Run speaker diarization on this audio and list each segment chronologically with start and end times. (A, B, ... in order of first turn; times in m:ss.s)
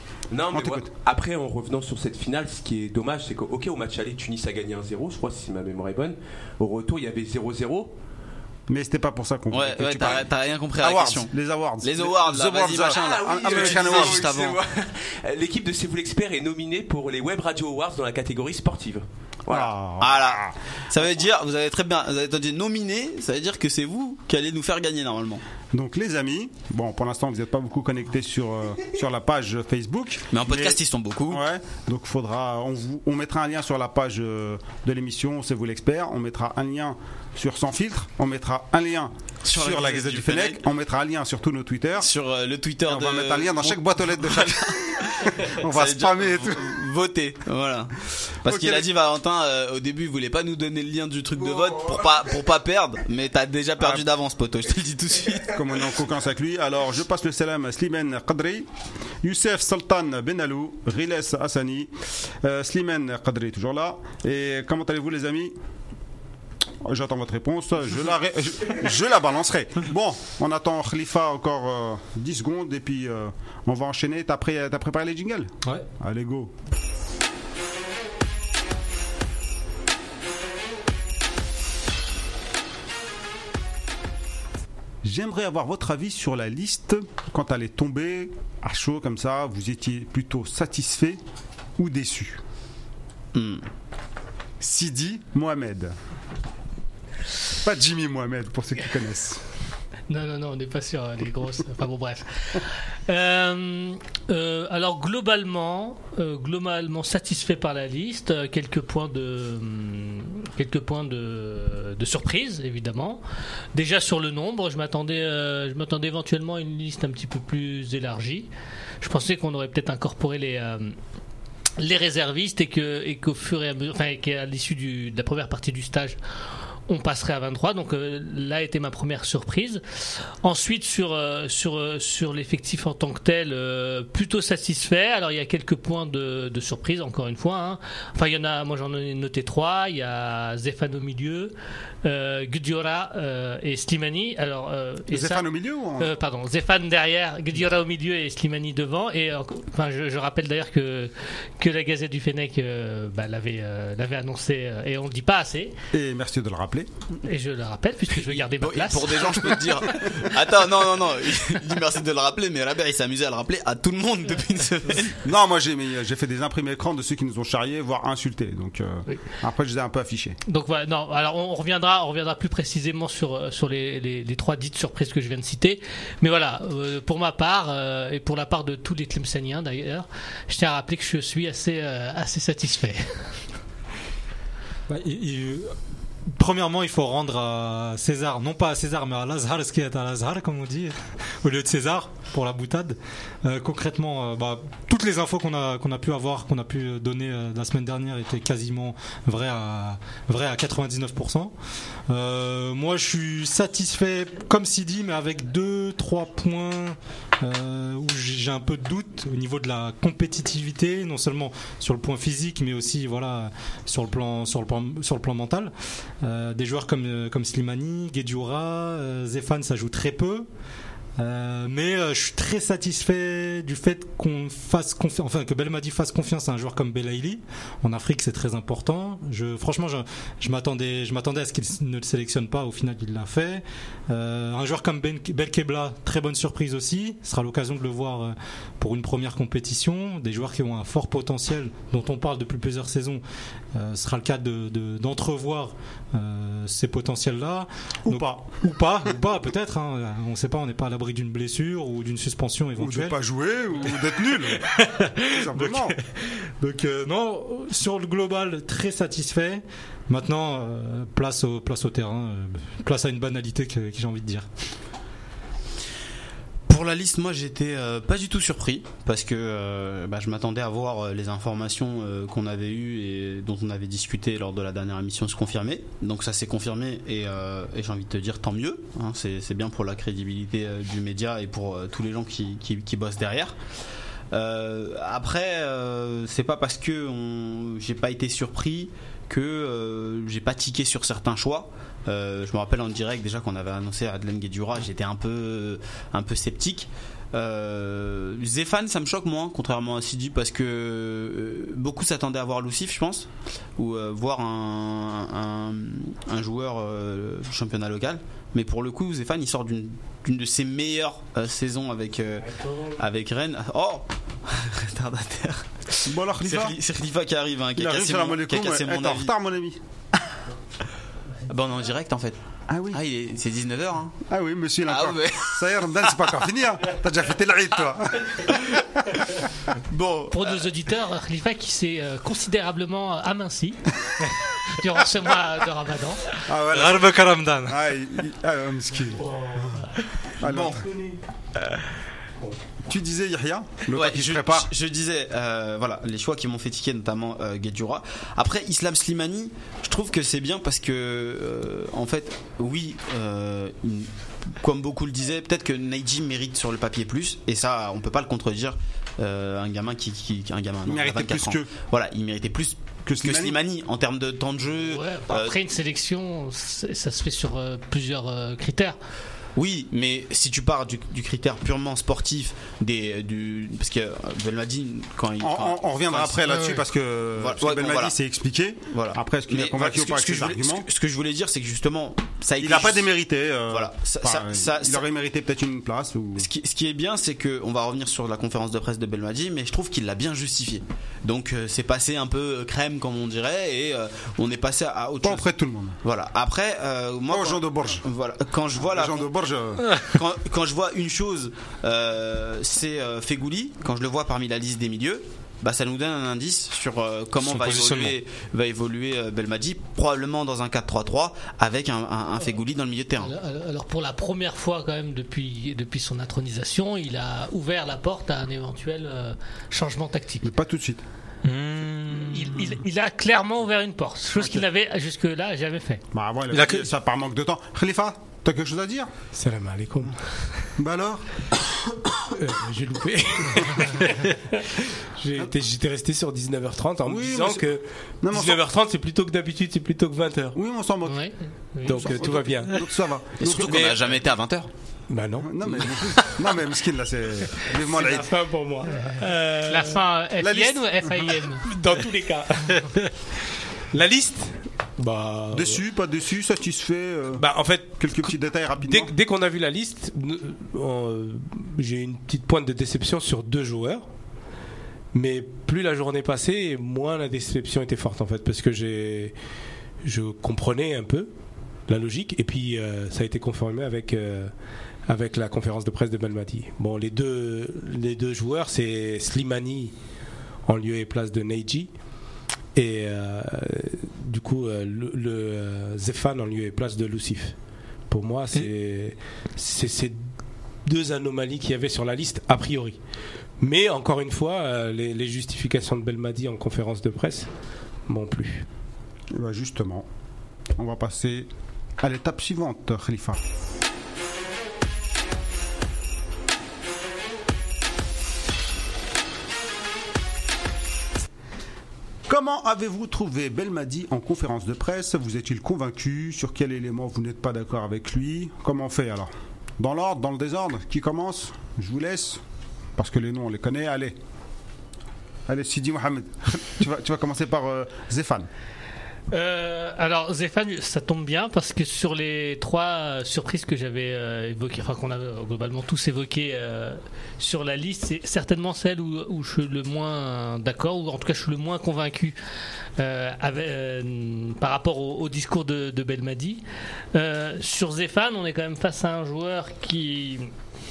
0:00.3-0:07.9 A
0:00.5-0:00.9 B
0:08.7-0:14.3 B
0:09.5-0:11.3 C
0:11.8-0:14.6 C
0:12.9-0:19.7 A
0:19.5-0:20.6 B
0:20.0-0:25.4 C
0:25.7-0:42.1 B
0:30.3-0:31.4 C
0:39.4-0:40.6 C
0:42.0-0:55.8 C
0:42.8-0:46.9 B
0:48.5-0:48.9 B
0:53.8-0:54.0 B
0:55.5-0:58.7 B
0:59.2-1:01.9 B
1:02.4-1:05.5 B
1:06.8-1:16.5 B
1:25.0-1:31.2 B
1:31.8-1:32.4 B
1:33.4-1:33.6 C
1:34.6-1:36.0 B
1:37.6-1:39.4 B
1:40.1-1:53.2 D
1:53.7-1:58.5 D
1:59.0-2:01.0 D
2:01.8-2:06.2 D
2:06.9-2:09.8 D
2:10.4-2:25.4 D
2:25.1-2:26.1 B
2:26.0-2:35.8 D
2:35.9-2:36.9 B
2:37.2-2:39.6 D
2:38.4-2:45.2 C
2:45.2-2:50.4 B
2:50.5-3:03.0 D
3:04.9-3:05.7 E
3:06.3-3:21.5 E
3:22.1-3:40.5 E
3:41.2-4:03.2 E
4:03.7-4:13.2 E
4:08.0-4:08.5 B
4:12.8-4:14.7 B
4:14.5-4:24.5 E
4:15.3-4:16.0 B
4:26.7-4:43.6 C
4:44.3-5:19.3 C
5:16.0-5:16.8 B
5:17.8-5:19.8 B
5:21.5-5:22.4 C
5:22.7-5:23.0 B
5:22.9-5:24.2 C
5:24.3-5:28.6 B
5:24.9-5:26.4 C
5:28.5-5:29.2 C
5:29.9-5:30.6 C
5:30.3-5:33.9 D
5:34.7-5:36.2 D
5:36.5-5:37.1 B
5:36.7-5:37.8 E
5:37.7-5:39.2 B
5:39.2-5:39.8 F
5:40.4-5:41.2 F
5:40.4-5:40.8 B
5:42.9-5:44.7 B
5:43.9-6:05.6 C
6:00.8-6:01.7 B
6:03.0-6:03.6 B
6:04.9-6:09.0 D
6:09.6-6:16.4 C
6:15.4-6:20.9 B
6:16.5-6:16.8 D
6:17.4-6:18.2 C
6:18.9-6:23.1 C
6:22.6-6:26.5 B
6:23.7-6:25.0 C
6:26.4-6:35.4 C
6:35.2-6:36.0 B
6:36.0-6:39.3 C
6:37.3-6:38.0 B
6:38.8-6:39.9 B
6:40.0-6:53.3 C
6:47.4-6:48.2 E
6:53.2-7:00.5 D
7:00.4-7:01.0 B
7:01.4-7:02.7 E
7:02.2-7:06.0 D
7:04.4-7:04.6 B
7:06.1-7:09.1 B
7:06.5-7:06.9 E
7:09.3-7:10.7 F
7:10.8-7:11.2 B
7:12.2-7:20.6 F
7:17.1-7:17.7 B
7:18.2-7:18.6 B
7:20.6-7:21.2 B
7:21.1-7:22.2 D
7:21.9-7:22.8 F
7:21.9-7:24.1 B
7:23.4-7:24.7 C
7:25.1-7:26.3 F
7:25.4-7:28.3 B
7:27.7-7:30.0 F
7:29.6-7:31.7 D
7:30.4-7:31.1 B
7:31.6-7:33.0 F
7:33.9-7:35.8 F
7:35.5-7:37.5 B
7:37.4-7:44.0 F
7:38.0-7:39.1 B
7:45.1-7:49.4 F
7:50.0-7:51.3 F
7:51.9-7:54.5 F
7:55.1-7:59.9 F
8:00.7-8:01.9 F
8:02.8-8:07.6 F
8:08.1-8:10.3 F
8:10.9-8:13.0 F
8:13.6-8:17.5 F
8:18.1-8:18.7 F
8:19.3-8:20.1 B
8:20.8-8:21.5 B
8:22.0-8:23.4 B
8:32.3-8:42.4 B
8:43.0-8:44.2 B
8:45.5-8:48.5 B
8:49.3-9:02.4 D
9:03.0-9:06.6 D
9:07.1-9:10.5 D